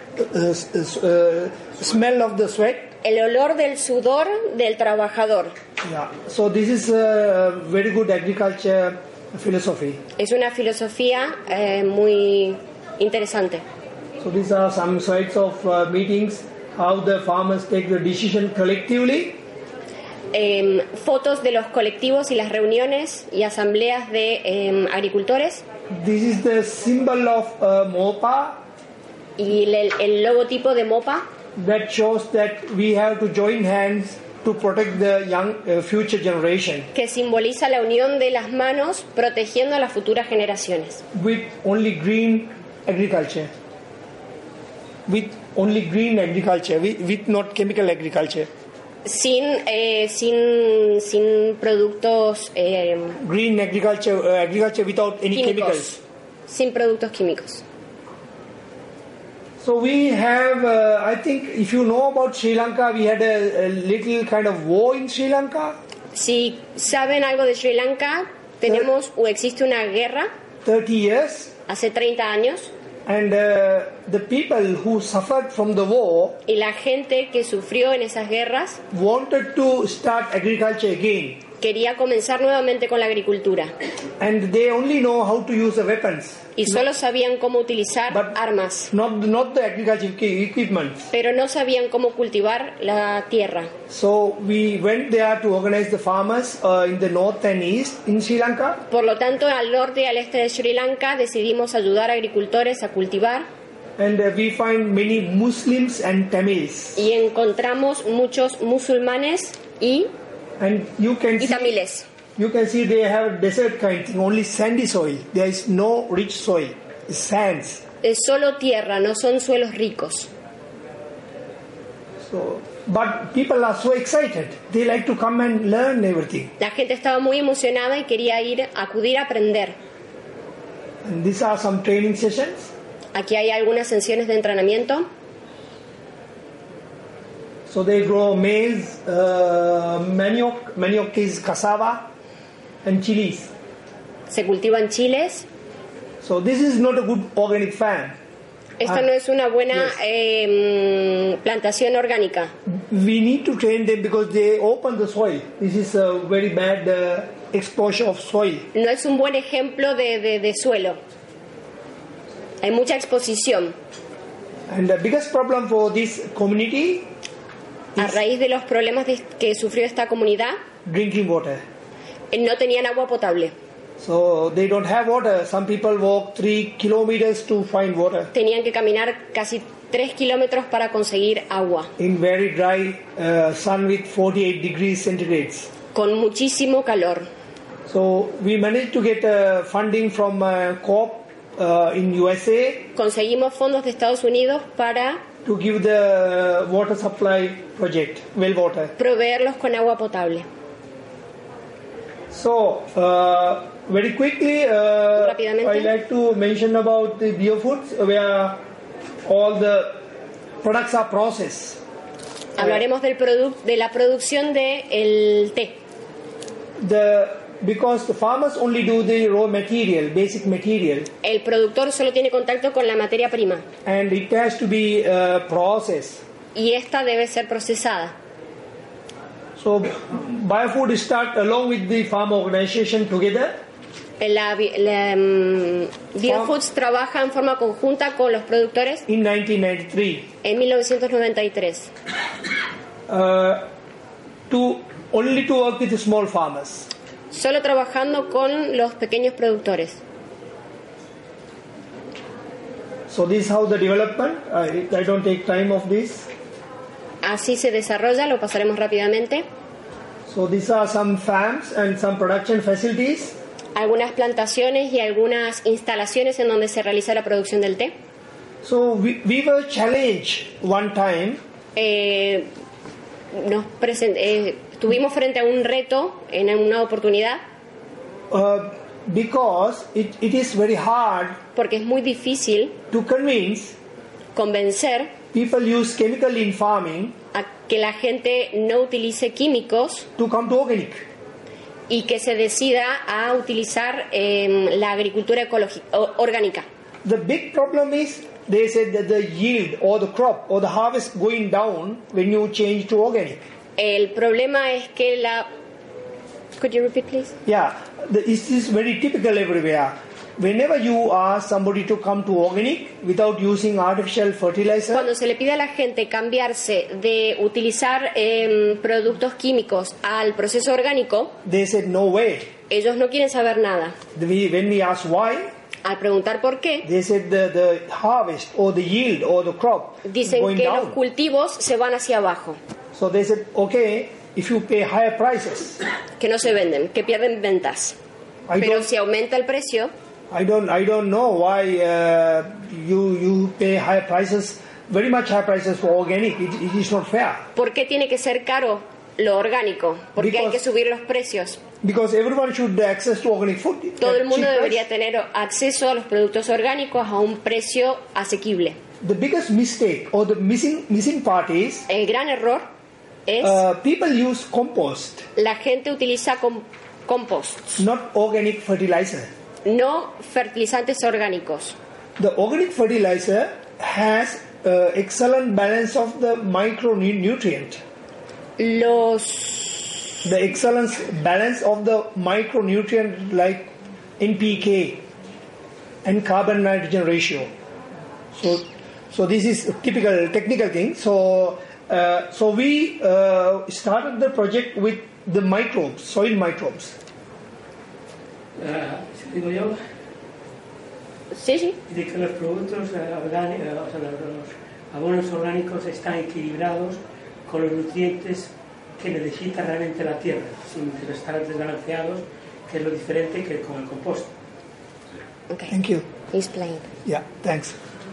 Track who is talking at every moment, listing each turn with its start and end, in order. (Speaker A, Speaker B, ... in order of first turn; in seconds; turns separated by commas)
Speaker A: 0.2-2.9, Speaker B: 3.0-5.5, Speaker A: 5.8-10.0, Speaker B: 10.2-13.6, Speaker A: 14.2-19.4, Speaker B: 20.3-25.6, Speaker A: 25.9-28.6, Speaker B: 29.4-31.2, Speaker A: 31.6-36.9, Speaker B: 36.9-41.0, Speaker A: 41.1-43.5, Speaker A: 45.1-48.5, Speaker B: 49.0-53.2, Speaker A: 53.2-56.0, Speaker B: 55.3-56.0, Speaker B: 56.5-57.6, Speaker A: 59.6-65.8, Speaker B: 66.1-70.3, Speaker A: 70.6-71.5, Speaker B: 71.7-72.7, Speaker A: 73.1-76.4, Speaker B: 76.5-78.8, Speaker A: 78.9-81.4, Speaker B: 81.6-83.7, Speaker A: 84.2-86.8, Speaker B: 86.6-88.9, Speaker A: 88.1-88.4, Speaker A: 88.9-91.1, Speaker B: 91.1-93.7, Speaker A: 93.9-98.8, Speaker B: 98.9-103.5, Speaker A: 104.0-107.1, Speaker B: 107.0-110.1, Speaker A: 110.6-111.8, Speaker B: 111.4-112.1, Speaker A: 112.4-117.8, Speaker B: 118.0-120.3, Speaker A: 122.2-126.5, Speaker B: 126.6-129.8, Speaker A: 131.0-132.7, Speaker B: 133.1-135.1, Speaker A: 137.7-142.1, Speaker A: 142.8-143.5, Speaker B: 144.3-145.5, Speaker A: 146.2-148.2, Speaker B: 148.8-152.5, Speaker A: 152.7-158.7, Speaker B: 158.7-161.0, Speaker B: 162.6-163.8, Speaker A: 164.7-167.1, Speaker B: 168.0-170.6, Speaker A: 170.8-171.6, Speaker B: 172.3-173.5, Speaker A: 174.0-178.3, Speaker B: 178.3-181.9, Speaker A: 182.0-185.7, Speaker B: 185.9-187.3, Speaker A: 187.9-192.9, Speaker B: 192.9-195.2, Speaker A: 195.4-198.9, Speaker B: 199.0-200.5, Speaker A: 202.3-208.6, Speaker B: 205.2-205.9, Speaker A: 209.2-210.0, Speaker A: 210.6-211.8, Speaker B: 212.6-215.8, Speaker A: 216.8-221.1, Speaker B: 221.2-223.7, Speaker A: 223.8-226.2, Speaker B: 226.6-228.1, Speaker A: 229.6-233.6, Speaker B: 234.2-239.1, Speaker A: 236.2-236.5, Speaker A: 239.1-240.3, Speaker B: 240.4-241.9, Speaker A: 243.1-243.7, Speaker A: 244.5-246.9, Speaker B: 247.3-250.0, Speaker A: 253.1-256.3, Speaker B: 257.2-259.4, Speaker A: 260.3-263.4, Speaker B: 263.8-267.9, Speaker A: 268.6-271.4, Speaker B: 271.8-272.5, Speaker B: 273.3-277.4, Speaker A: 278.3-281.4, Speaker B: 281.6-282.8, Speaker A: 282.9-283.8, Speaker B: 284.4-285.1, Speaker A: 285.3-287.2, Speaker B: 287.3-290.1, Speaker A: 290.2-291.1, Speaker B: 291.9-296.6, Speaker A: 297.0-303.5, Speaker B: 303.8-305.5, Speaker B: 306.6-307.4, Speaker A: 307.5-315.1, Speaker B: 314.9-321.3, Speaker A: 321.4-322.5, Speaker B: 322.7-324.0, Speaker A: 324.1-325.5, Speaker B: 325.8-326.9, Speaker A: 326.8-331.0, Speaker B: 330.1-332.6, Speaker A: 332.9-335.8, Speaker B: 336.2-338.0, Speaker A: 338.5-338.9, Speaker B: 338.6-339.9, Speaker A: 340.3-347.5, Speaker B: 347.6-351.6, Speaker A: 350.2-350.6, Speaker A: 351.8-354.8, Speaker B: 354.0-358.8, Speaker A: 359.0-361.9, Speaker B: 361.9-362.7, Speaker B: 363.3-363.6, Speaker A: 363.4-365.3, Speaker B: 365.4-367.8, Speaker A: 367.8-369.3, Speaker B: 369.6-371.8, Speaker A: 372.2-377.8, Speaker B: 378.6-380.1, Speaker A: 380.2-385.0, Speaker A: 386.0-387.5, Speaker A: 388.3-397.0, Speaker C: 398.6-399.8, Speaker B: 401.3-401.8, Speaker C: 401.9-414.3, Speaker A: 415.7-416.1, Speaker B: 416.3-416.9, Speaker A: 417.1-417.8